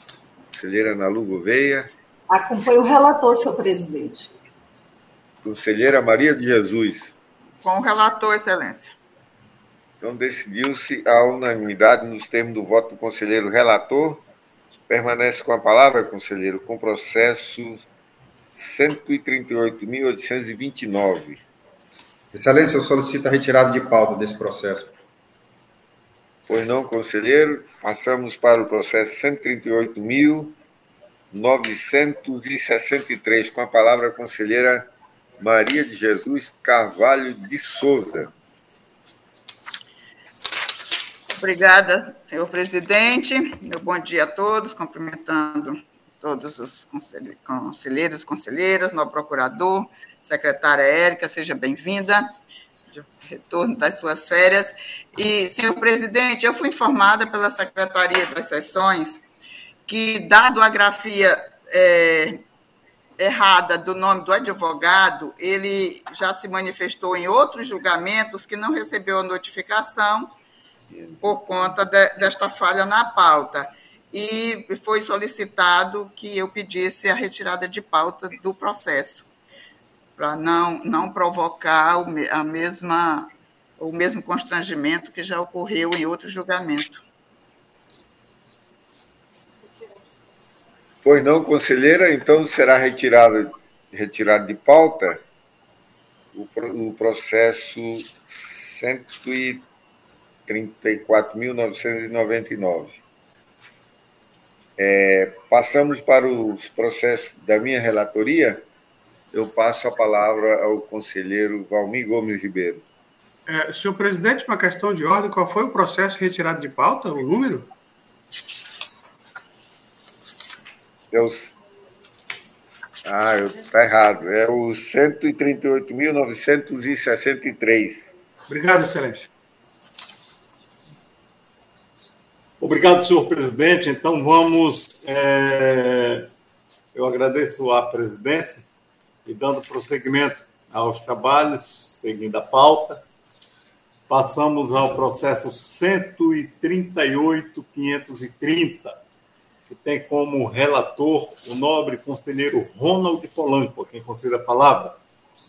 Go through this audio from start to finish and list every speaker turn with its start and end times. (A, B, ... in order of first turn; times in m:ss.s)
0:00.5-0:01.9 A
0:02.3-0:04.3 B
0:05.4-0:07.1 A
0:07.6-0:09.0 C
0:10.0-0:14.2 A
0:14.9-0:17.8 A
0:18.5-0:21.4 A
0:22.3-0:24.9 D
0:26.5-0:30.6 A
0:31.3-0:34.9 A
0:35.4-0:38.3 A
0:41.4-0:52.3 C
0:52.9-0:59.2 C
0:59.9-1:02.4 C
1:03.2-1:10.3 C
1:11.2-1:19.2 C
1:20.2-1:27.0 C
1:31.0-1:35.2 A
1:36.3-1:39.6 A
1:40.5-1:43.0 A
1:44.8-1:48.6 A
1:49.3-1:52.8 A
1:53.5-1:57.7 E
2:01.1-2:01.5 A
2:03.0-2:08.1 A
2:08.5-2:09.3 E
2:12.6-2:16.3 F
2:16.9-2:18.6 F
2:19.2-2:23.0 F
2:24.1-2:29.0 F
2:29.7-2:35.0 F